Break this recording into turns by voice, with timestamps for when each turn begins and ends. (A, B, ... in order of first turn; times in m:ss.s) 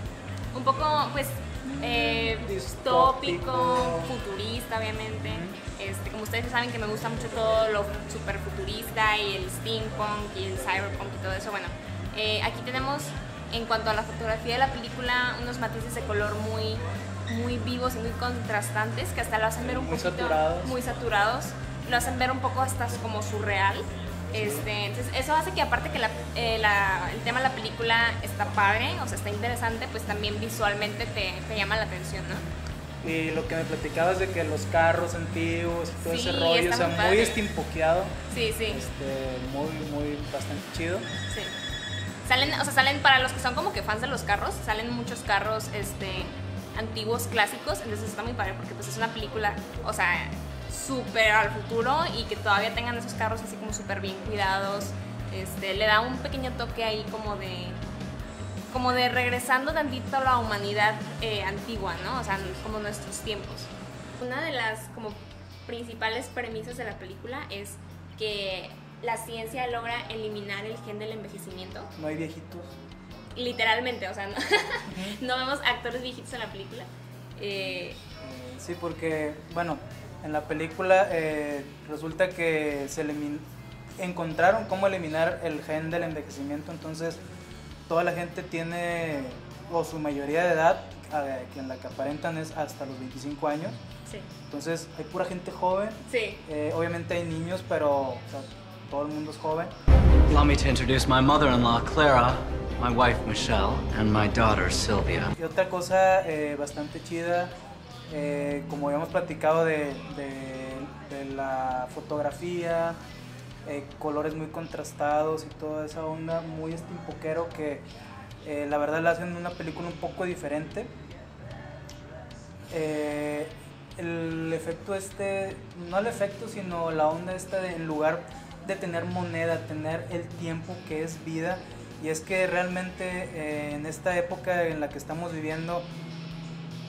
0:00.5-0:32.5 A
0:01.6-0:04.2 B
0:05.2-0:05.6 B
0:19.6-0:20.8 B
0:24.4-0:24.7 B
0:33.0-0:38.2 B
0:36.0-0:37.4 A
0:38.3-0:38.9 A
0:38.7-0:41.1 B
0:41.3-0:41.6 A
0:42.2-0:57.8 A
0:58.7-1:11.9 A
1:12.0-1:12.7 B
1:13.4-1:18.0 A
1:14.9-1:15.2 B
1:18.2-1:27.2 B
1:27.9-1:33.8 B
1:34.1-1:34.3 A
1:34.5-1:39.7 B
1:36.1-1:36.4 A
1:40.3-1:45.4 C
1:45.4-1:47.5 B
1:48.1-1:53.0 B
1:53.6-1:57.9 B
1:58.4-2:00.9 B
2:02.7-2:15.9 B